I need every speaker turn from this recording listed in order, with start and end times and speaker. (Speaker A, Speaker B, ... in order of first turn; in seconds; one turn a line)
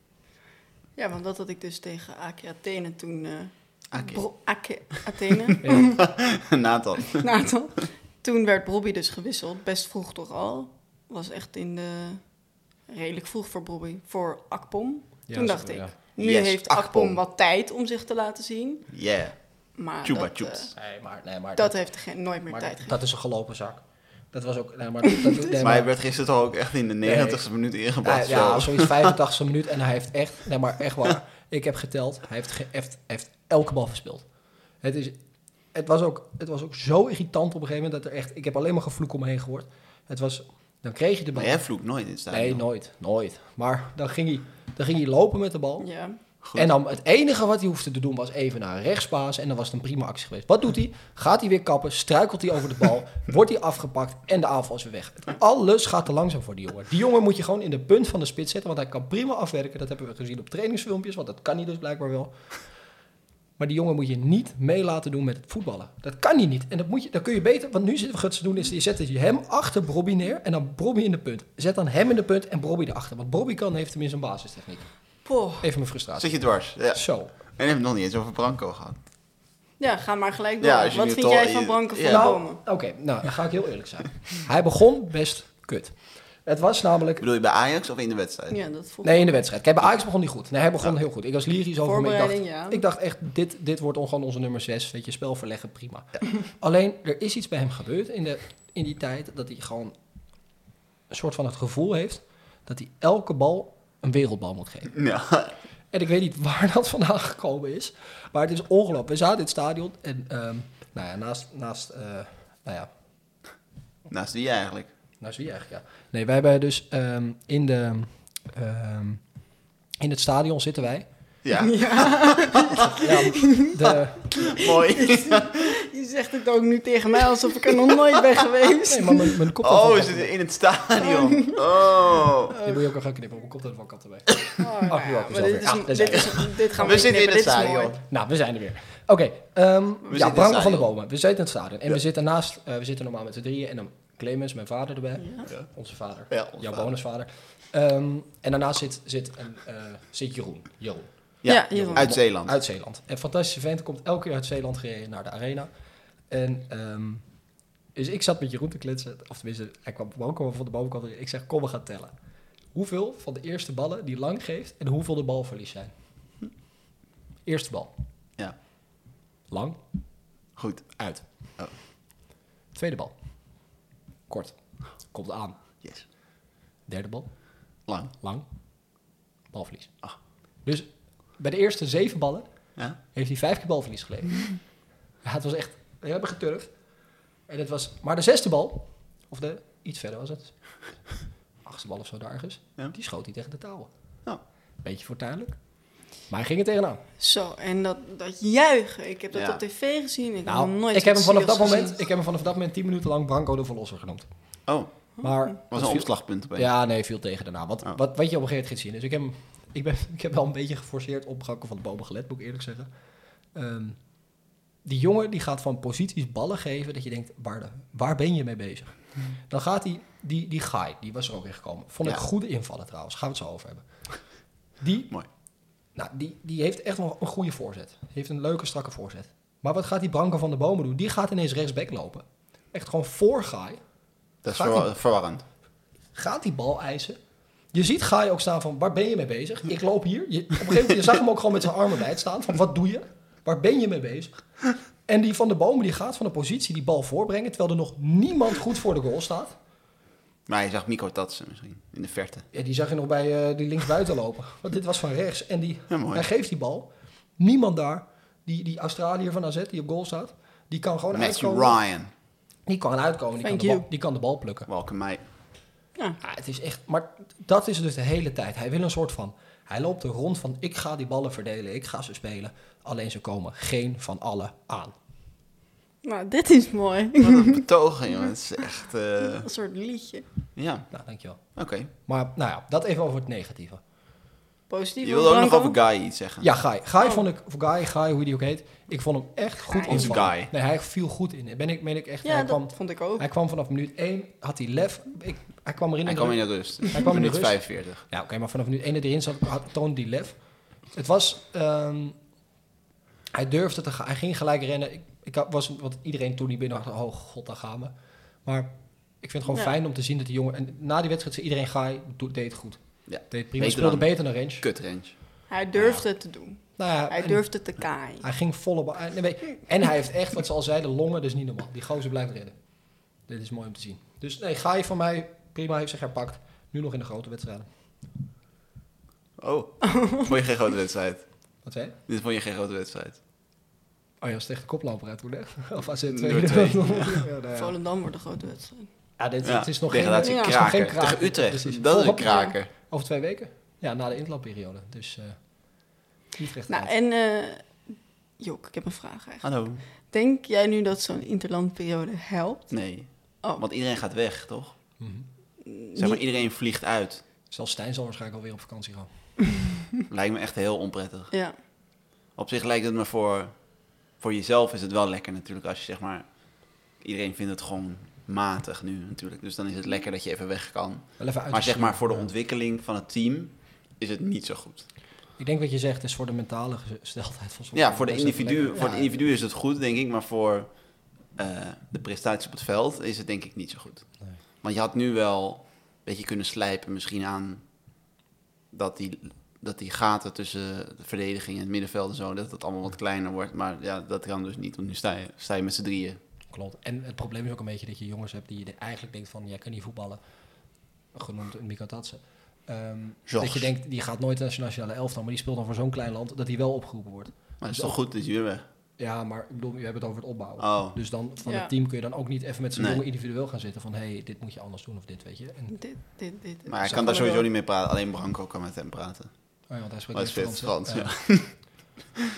Speaker A: 1.0-6.0
Speaker B: 3.9-4.2
Speaker B: 5.7-7.3
Speaker A: 7.2-12.2
Speaker A: 12.9-18.9
Speaker C: 15.3-16.0
Speaker B: 16.2-17.2
Speaker B: 18.9-19.4
Speaker A: 19.8-20.7
Speaker B: 20.0-20.7
Speaker C: 20.8-21.8
Speaker A: 21.6-23.0
Speaker C: 22.5-25.9
Speaker B: 25.6-29.1
Speaker C: 27.0-27.4
Speaker C: 28.0-34.2
Speaker C: 34.8-35.2
Speaker C: 35.7-41.6
Speaker B: 41.4-42.6
Speaker C: 42.3-45.9
Speaker A: 45.8-46.2
Speaker B: 46.4-46.7
Speaker C: 46.5-62.3
Speaker C: 63.6-74.9
Speaker A: 75.2-75.7
Speaker C: 75.6-77.3
Speaker B: 76.2-79.0
Speaker A: 79.8-82.6
Speaker B: 80.6-82.4
Speaker C: 82.1-87.2
Speaker B: 87.2-88.6
Speaker A: 88.5-89.4
Speaker C: 89.0-100.0
Speaker A: 91.8-92.8
Speaker C: 101.1-105.0
Speaker B: 104.9-105.6
Speaker C: 105.9-112.9
Speaker B: 114.1-114.9
Speaker C: 115.2-119.2
Speaker C: 120.0-121.1
Speaker B: 121.4-122.9
Speaker A: 121.5-123.8
Speaker C: 122.9-124.5
Speaker B: 124.4-125.7
Speaker A: 124.4-129.4
Speaker C: 128.9-130.3
Speaker B: 129.6-132.6
Speaker A: 131.0-131.6
Speaker A: 132.5-132.8
Speaker C: 132.6-136.6
Speaker A: 134.6-138.0
Speaker B: 136.1-138.0
Speaker C: 138.1-155.7
Speaker B: 140.1-140.9
Speaker A: 145.2-145.5
Speaker B: 146.3-146.9
Speaker B: 151.4-152.5
Speaker A: 151.4-152.1
Speaker C: 156.3-157.2
Speaker C: 157.9-162.1
Speaker C: 162.7-165.9
Speaker C: 167.4-167.9
Speaker C: 169.5-169.8
Speaker B: 170.6-171.0
Speaker C: 171.0-171.2
Speaker C: 172.7-173.6
Speaker C: 174.3-175.6
Speaker C: 176.9-178.5
Speaker B: 177.9-178.1
Speaker C: 179.0-180.0
Speaker C: 180.6-184.7
Speaker C: 185.2-186.7
Speaker C: 187.5-190.7
Speaker C: 191.7-193.9
Speaker C: 194.8-195.6
Speaker C: 196.3-197.0
Speaker A: 197.2-202.0
Speaker B: 199.3-199.6
Speaker C: 200.5-204.3
Speaker B: 204.7-204.9
Speaker C: 205.2-212.9
Speaker B: 205.6-206.7
Speaker C: 213.5-214.0
Speaker C: 214.8-224.1
Speaker C: 224.8-225.1
Speaker C: 225.9-233.8
Speaker B: 234.4-235.4
Speaker C: 234.5-234.9
Speaker C: 236.1-237.2
Speaker C: 237.7-244.5
Speaker C: 245.1-249.6
Speaker B: 250.5-252.5
Speaker C: 252.5-261.8
Speaker B: 255.9-256.3
Speaker B: 261.1-262.1
Speaker C: 262.7-264.7
Speaker A: 263.4-263.9
Speaker B: 264.7-265.2
Speaker C: 266.2-274.9
Speaker A: 276.0-277.6
Speaker B: 277.2-279.5
Speaker A: 279.2-280.3
Speaker B: 280.6-280.9
Speaker C: 280.9-283.8
Speaker B: 281.6-281.9
Speaker A: 284.7-285.8
Speaker B: 285.0-286.5
Speaker C: 286.4-300.4
Speaker A: 289.7-290.2
Speaker B: 289.9-290.5
Speaker A: 292.2-293.2
Speaker B: 296.1-298.0
Speaker C: 300.9-302.2
Speaker C: 303.3-307.9
Speaker C: 308.4-314.6
Speaker B: 313.1-315.2
Speaker A: 315.5-318.2
Speaker C: 316.8-317.5
Speaker C: 318.2-327.7
Speaker B: 329.4-331.5
Speaker A: 329.9-330.3
Speaker C: 331.6-332.0
Speaker B: 332.1-333.2
Speaker C: 334.2-337.7
Speaker B: 336.1-337.2
Speaker A: 337.6-338.9
Speaker C: 339.2-345.6
Speaker B: 339.4-342.7
Speaker A: 340.2-340.7
Speaker A: 342.2-342.6
Speaker C: 346.3-346.9
Speaker A: 346.7-352.9
Speaker B: 349.4-349.8
Speaker B: 352.7-354.7
Speaker C: 355.0-355.3
Speaker A: 355.6-356.2
Speaker B: 356.0-357.2
Speaker C: 357.5-359.3
Speaker B: 360.1-361.3
Speaker B: 362.4-374.9
Speaker C: 371.2-372.3
Speaker C: 375.4-379.2
Speaker B: 377.7-384.1
Speaker B: 384.6-387.6
Speaker B: 388.7-396.2
Speaker C: 396.5-400.2
Speaker C: 401.1-408.0
Speaker B: 403.3-403.7
Speaker B: 407.6-408.6
Speaker C: 409.0-415.8
Speaker B: 410.6-411.0
Speaker A: 411.4-411.7
Speaker B: 412.8-413.0
Speaker A: 415.7-417.5
Speaker B: 416.7-419.3
Speaker C: 419.7-421.1
Speaker B: 420.1-421.6